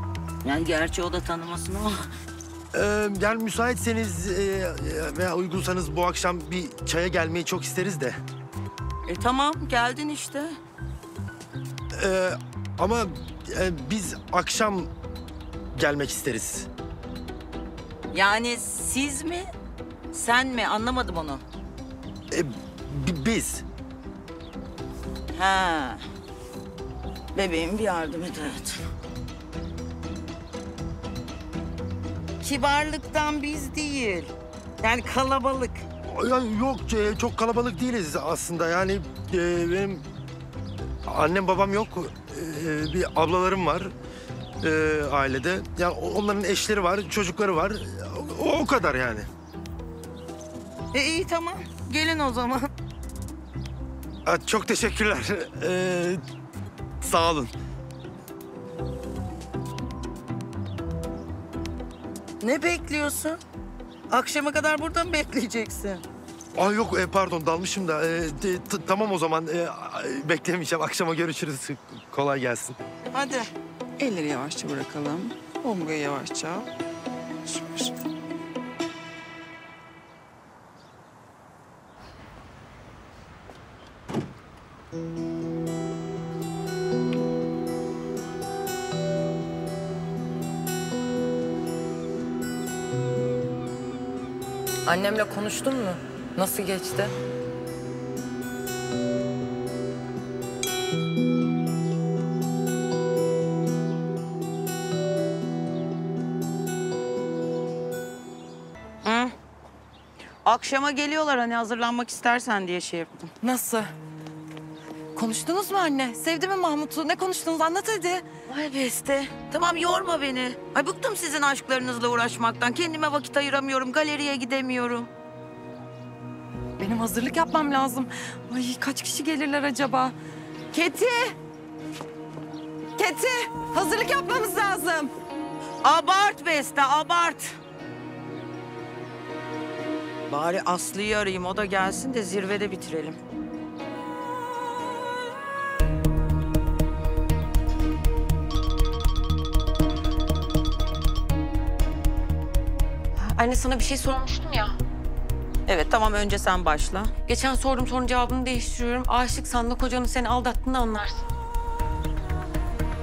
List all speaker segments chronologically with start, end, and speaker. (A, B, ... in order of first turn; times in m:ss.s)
0:00.4-0:02.0 A
0:02.7-0:08.2 B
0:09.1-0:10.6 A
0:12.0-0:14.9 B
0:15.7-0:16.7 B
0:18.1-0:19.5 A
0:20.1-0:21.4 A
0:22.3-0:23.6 B
0:25.3-0:26.0 A
0:27.4-0:28.8 A
0:32.4-0:35.8 A
0:36.0-0:40.0 B
0:41.1-0:43.9 B
0:44.6-0:49.3 B
0:50.9-0:52.7 A
0:54.2-0:56.2 B
0:57.0-0:57.5 B
1:02.4-1:03.4 A
1:04.1-1:06.0 A
1:06.6-1:12.8 B
1:13.1-1:13.5 A
1:14.0-1:16.7 C
1:17.4-1:17.9 C
1:34.8-1:37.2 D
1:49.0-1:49.3 A
1:50.4-1:53.3 A
1:53.4-1:53.9 D
1:55.2-1:58.3 D
1:58.5-2:05.1 A
2:06.8-2:10.2 D
2:10.7-2:11.4 A
2:13.0-2:15.1 D
2:15.8-2:17.6 A
2:20.3-2:23.2 A
2:33.2-2:34.8 E
2:35.7-2:37.1 A
2:37.3-2:41.2 E